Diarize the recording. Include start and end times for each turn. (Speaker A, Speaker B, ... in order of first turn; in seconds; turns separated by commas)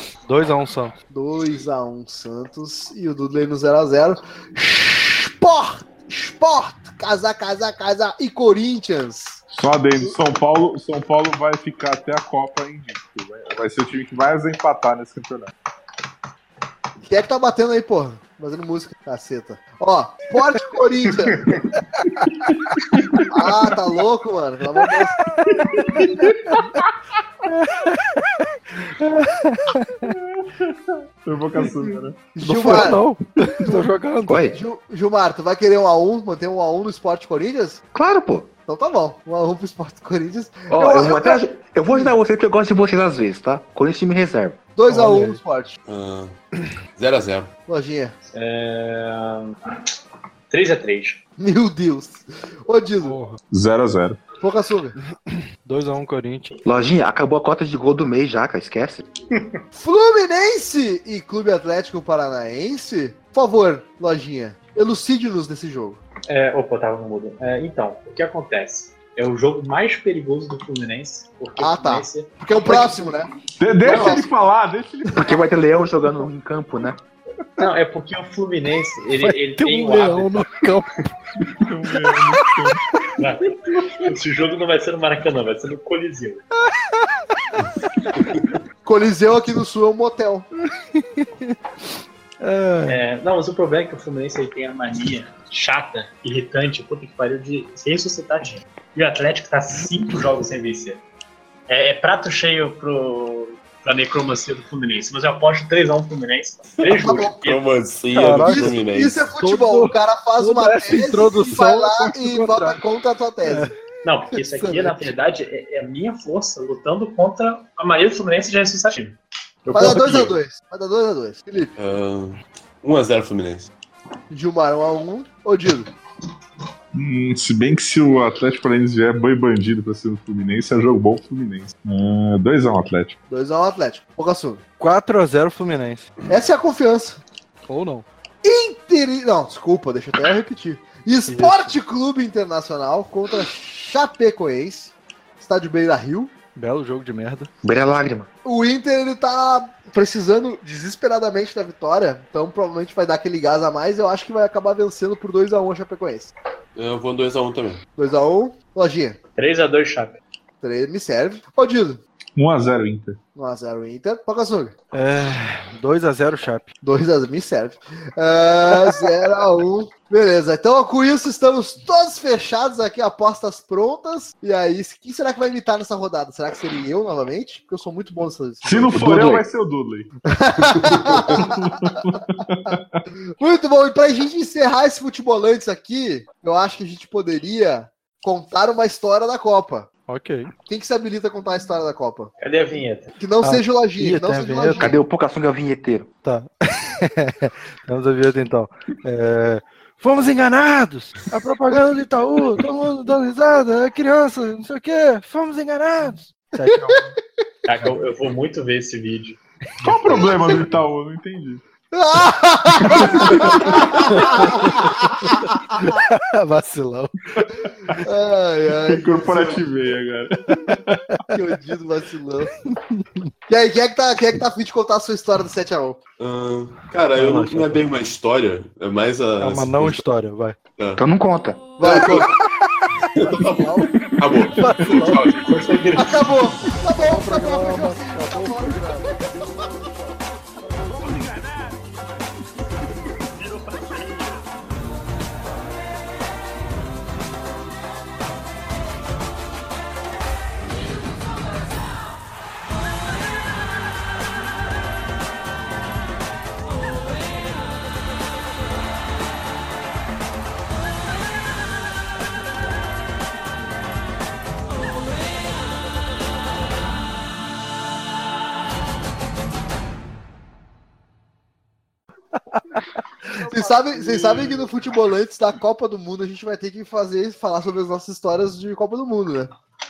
Speaker A: 0.3-0.9, Speaker B: 1.1-9.4, Speaker C: 9.5-15.5, Speaker B: 17.1-21.7, Speaker C: 22.4-23.3, Speaker A: 22.9-23.3, Speaker B: 23.3-25.2, Speaker A: 24.8-26.8, Speaker C: 25.6-26.6, Speaker A: 27.4-30.2, Speaker C: 30.2-32.3, Speaker B: 32.3-33.0, Speaker A: 32.4-34.4, Speaker D: 34.3-34.6, Speaker B: 34.5-37.8, Speaker D: 37.9-38.5, Speaker B: 38.7-41.4, Speaker D: 40.7-44.6, Speaker B: 44.8-45.8, Speaker A: 44.9-45.4, Speaker E: 45.9-46.4, Speaker E: 47.0-47.5, Speaker B: 47.7-48.1, Speaker F: 48.3-49.6, Speaker F: 50.5-51.2, Speaker B: 51.4-53.2, Speaker A: 53.0-53.4, Speaker C: 53.5-54.2, Speaker B: 54.4-55.0, Speaker A: 55.3-56.5, Speaker D: 56.6-59.1, Speaker B: 59.8-66.0, Speaker F: 66.3-72.9, Speaker B: 71.6-73.3, Speaker C: 73.6-75.3, Speaker B: 73.8-74.3, Speaker F: 73.8-74.2, Speaker D: 75.1-77.0, Speaker F: 77.6-80.4, Speaker A: 79.2-81.1, Speaker C: 81.5-82.8, Speaker A: 81.9-82.3, Speaker F: 83.2-86.4, Speaker A: 86.8-87.4, Speaker A: 88.0-88.3, Speaker B: 88.8-90.5, Speaker A: 90.8-91.6, Speaker A: 92.4-93.0, Speaker F: 92.9-101.0, Speaker F: 101.7-107.6, Speaker E: 106.8-109.2, Speaker B: 107.0-107.4, Speaker A: 108.1-108.8, Speaker B: 108.4-113.7, Speaker A: 109.4-112.8, Speaker A: 113.5-113.8, Speaker F: 114.0-120.4, Speaker A: 114.3-115.0, Speaker B: 119.7-121.7, Speaker E: 121.8-123.7, Speaker B: 124.3-125.9, Speaker C: 126.9-133.2, Speaker B: 133.3-134.6, Speaker A: 134.8-136.1, Speaker B: 136.3-137.2, Speaker A: 137.7-138.1, Speaker B: 138.4-146.3, Speaker A: 141.3-141.8, Speaker A: 146.6-147.5, Speaker D: 147.6-148.3, Speaker B: 148.4-156.3, Speaker E: 156.8-157.8, Speaker B: 158.0-159.2, Speaker F: 159.4-160.2, Speaker B: 160.6-162.0, Speaker C: 162.4-163.2, Speaker B: 163.3-164.7, Speaker A: 164.9-166.7, Speaker B: 166.8-179.1, Speaker C: 178.6-180.1, Speaker D: 178.9-179.5, Speaker B: 180.3-182.0, Speaker C: 181.4-183.1, Speaker B: 183.4-189.9, Speaker A: 190.1-190.5, Speaker B: 190.7-192.3, Speaker F: 192.4-193.1, Speaker B: 193.2-195.0, Speaker A: 193.4-195.0, Speaker D: 194.7-196.1, Speaker A: 196.2-207.1, Speaker F: 207.7-209.4, Speaker C: 209.8-211.6, Speaker A: 209.8-210.6, Speaker B: 210.2-210.5, Speaker B: 211.9-216.0, Speaker A: 213.2-217.4, Speaker C: 213.2-213.9, Speaker C: 217.3-218.0, Speaker B: 218.0-219.7, Speaker C: 218.9-221.2, Speaker A: 220.5-221.3, Speaker B: 221.3-222.5, Speaker A: 222.6-223.3, Speaker B: 223.5-226.0, Speaker E: 226.2-230.0, Speaker A: 227.2-227.8, Speaker A: 229.4-230.6, Speaker E: 230.8-231.0, Speaker D: 231.0-231.8, Speaker E: 231.8-232.3, Speaker B: 231.8-232.3, Speaker E: 233.1-235.6, Speaker B: 233.3-233.9, Speaker A: 234.6-235.3, Speaker C: 234.6-235.0, Speaker F: 235.5-236.4, Speaker B: 236.0-239.9, Speaker A: 237.0-239.1, Speaker C: 240.9-241.8, Speaker F: 243.4-244.5, Speaker A: 272.5-272.9, Speaker B: 273.4-279.5, Speaker C: 273.7-274.7